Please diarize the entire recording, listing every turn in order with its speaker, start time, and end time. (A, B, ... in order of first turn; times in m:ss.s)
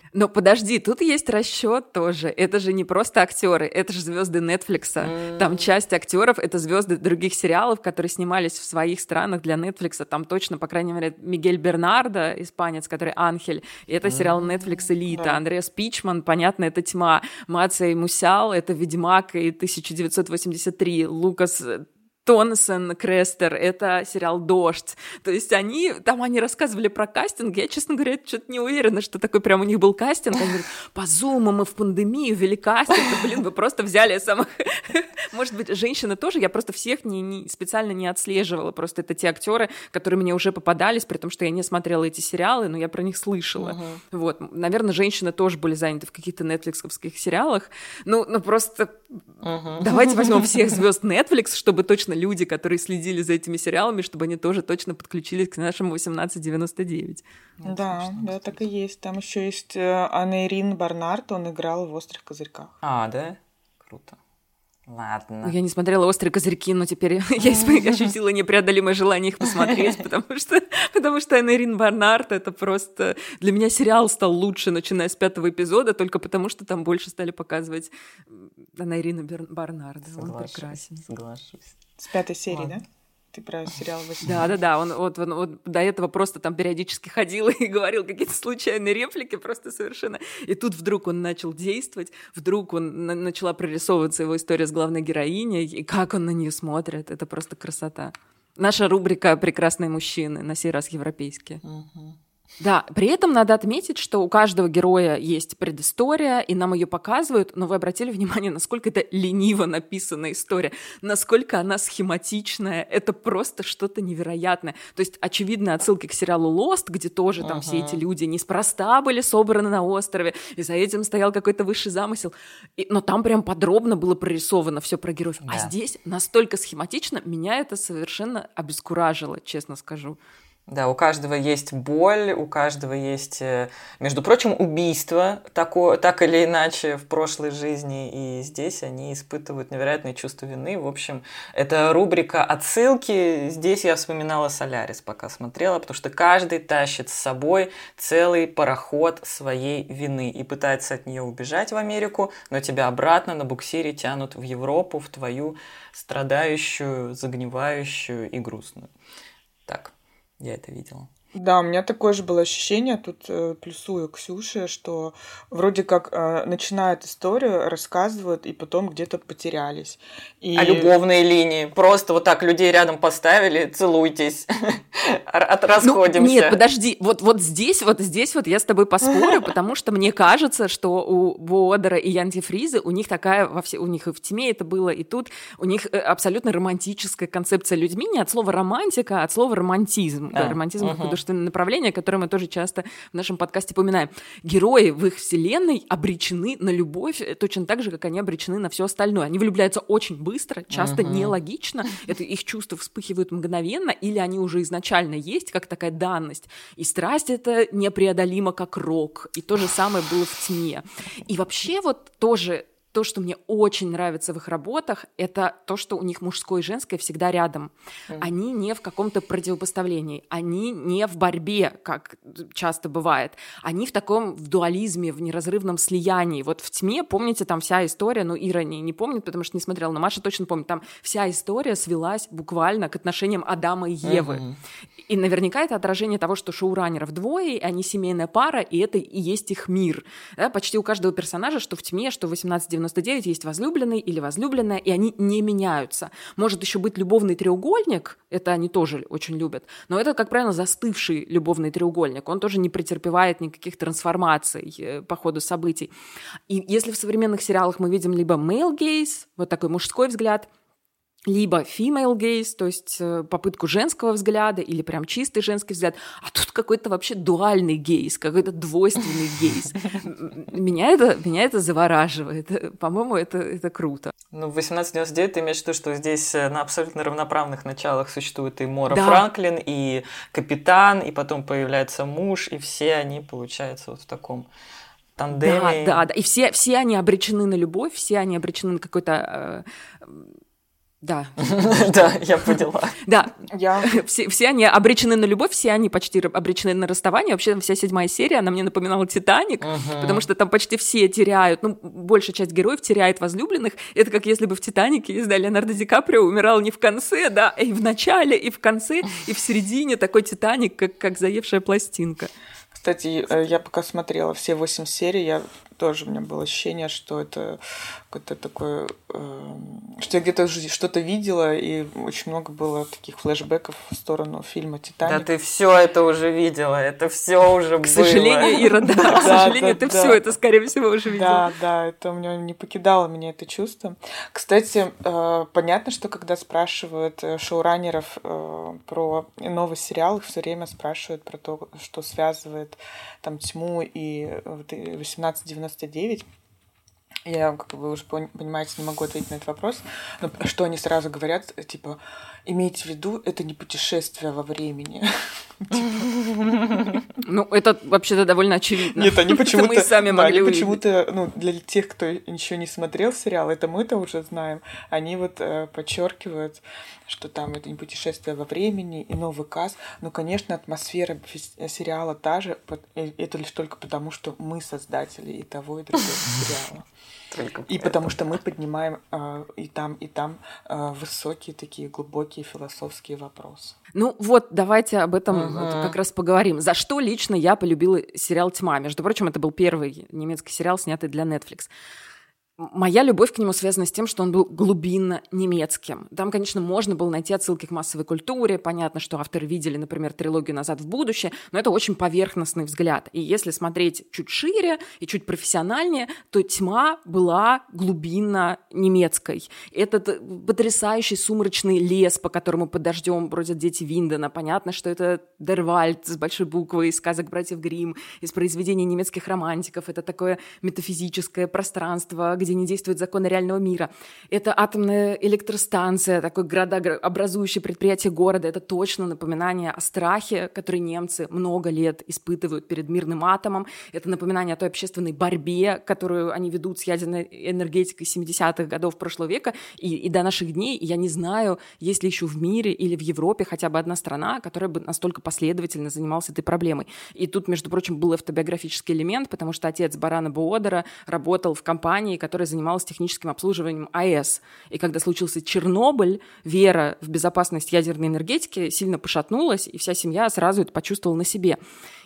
0:00.2-0:49.0 A
0:05.0-0:05.7 B
0:14.0-0:14.5 B
0:15.1-0:15.4 C
0:43.6-0:44.0 B
0:49.4-0:50.8 B
0:49.8-0:57.2 A
0:57.6-0:58.6 B
0:57.6-1:02.7 C
1:02.8-1:04.2 B
1:04.9-1:05.6 B
1:05.4-1:21.0 A
1:07.6-1:08.1 B
1:20.1-1:21.8 B
1:22.0-1:24.3 C
1:22.5-1:22.8 B
1:24.2-1:41.6 A
1:41.6-1:42.2 B
1:42.6-2:10.2 A
1:57.4-1:58.0 B
2:05.5-2:05.7 B
2:10.7-2:38.9 B
2:39.7-2:41.1 B
2:41.3-2:51.0 C
2:50.6-2:56.6 B
2:55.8-3:54.4 A
3:10.3-3:11.2 B
3:20.7-3:21.3 B
3:54.0-3:54.6 B
3:55.1-4:15.9 A
4:16.5-4:20.5 A
4:21.3-4:34.1 A
4:34.3-4:44.5 B
4:38.9-4:39.2 A
4:45.2-4:46.0 B
4:45.3-4:50.3 A
4:51.0-4:52.1 A
4:51.4-4:53.0 B
4:53.0-5:12.3 A
4:53.5-4:53.9 C
4:59.6-5:00.2 B
5:12.8-5:17.6 C
5:18.1-5:25.3 C
5:25.0-5:29.6 B
5:27.8-5:31.5 A
5:29.1-5:30.2 C
5:31.2-5:46.2 C
5:47.3-5:55.1 C
5:55.6-5:56.1 C
5:55.8-5:57.0 B
5:57.2-6:00.8 A
5:58.9-6:16.8 C
6:17.3-6:18.1 B
6:17.7-6:23.8 C
6:24.0-6:31.7 A
6:25.3-6:26.0 B
6:32.6-7:41.6 A